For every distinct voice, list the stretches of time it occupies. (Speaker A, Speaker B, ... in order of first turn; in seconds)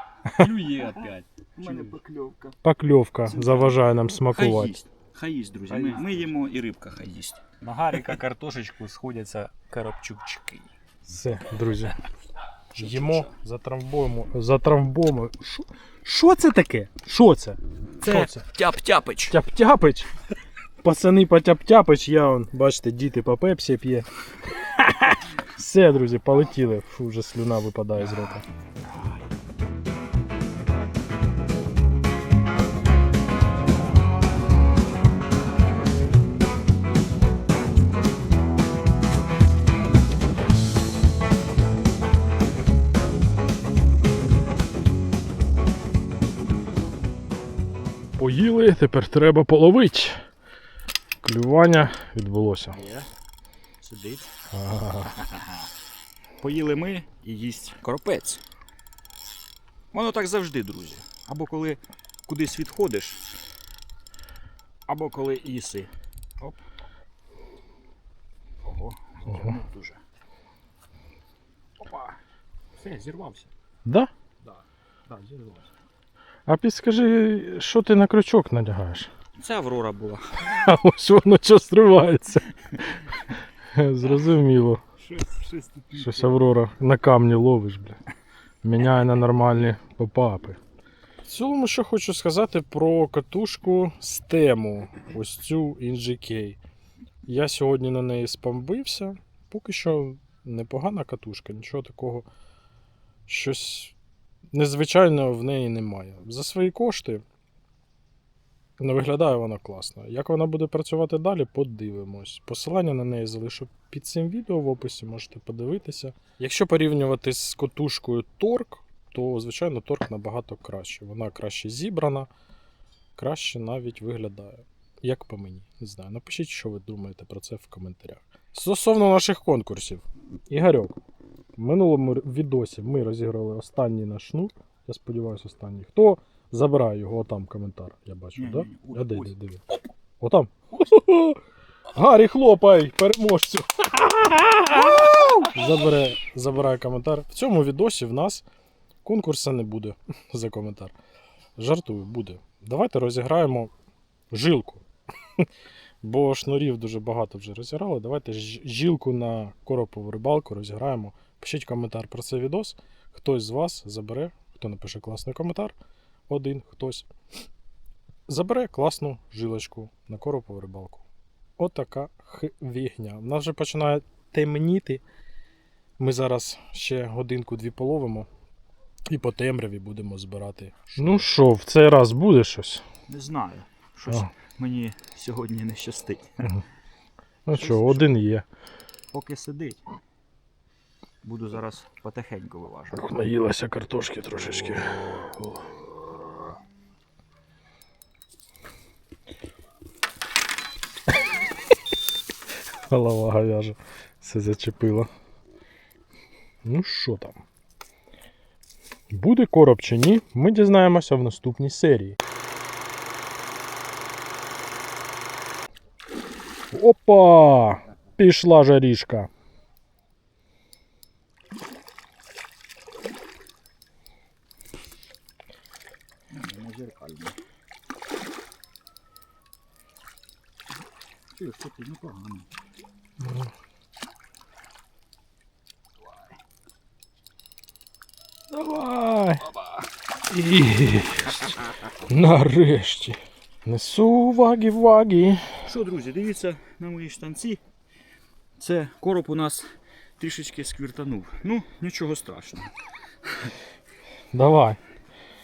Speaker A: 0.2-1.9, 5.7-6.3, 7.6-10.7
Speaker B: 1.6-2.5, 3.2-7.4, 12.8-13.2, 18.0-19.4, 52.7-53.1, 53.8-54.3, 55.2-55.7, 56.4-58.4, 59.9-63.2, 64.9-66.6, 68.6-70.0, 71.8-72.2, 72.7-73.5, 74.4-75.7, 79.4-80.4, 85.0-86.3, 138.3-139.7, 144.8-145.5, 180.9-181.2, 183.1-186.5, 187.5-188.1, 189.1-189.8, 191.2-193.1, 226.3-227.4, 231.3-232.5, 239.5-239.9, 241.5-241.9, 245.6-247.6, 248.6-252.7, 253.3-253.5
Speaker C: 2.6-4.7, 11.1-12.0, 12.7-18.5, 19.3-20.1, 20.8-24.1, 24.6-28.4, 48.2-50.2, 51.2-52.8, 54.5-55.2, 76.5-79.1, 80.5-82.5, 83.7-84.8, 85.9-88.0, 88.6-90.6, 91.2-96.6, 97.2-102.3, 103.3-103.9, 104.5-107.2, 108.8-122.3, 123.2-131.0, 131.6-139.6, 140.2-141.4, 141.9-148.4, 149.0-150.9, 151.6-153.7, 154.3-154.8, 156.0-165.7, 166.3-167.1, 168.3-171.0, 171.6-175.0, 176.0-178.3, 179.1-182.8, 187.4-188.4, 192.9-195.7, 202.9-205.1, 206.6-207.4, 209.1-212.2, 216.7-219.3, 233.2-233.5, 238.5-239.5, 240.3-245.5, 254.3-254.8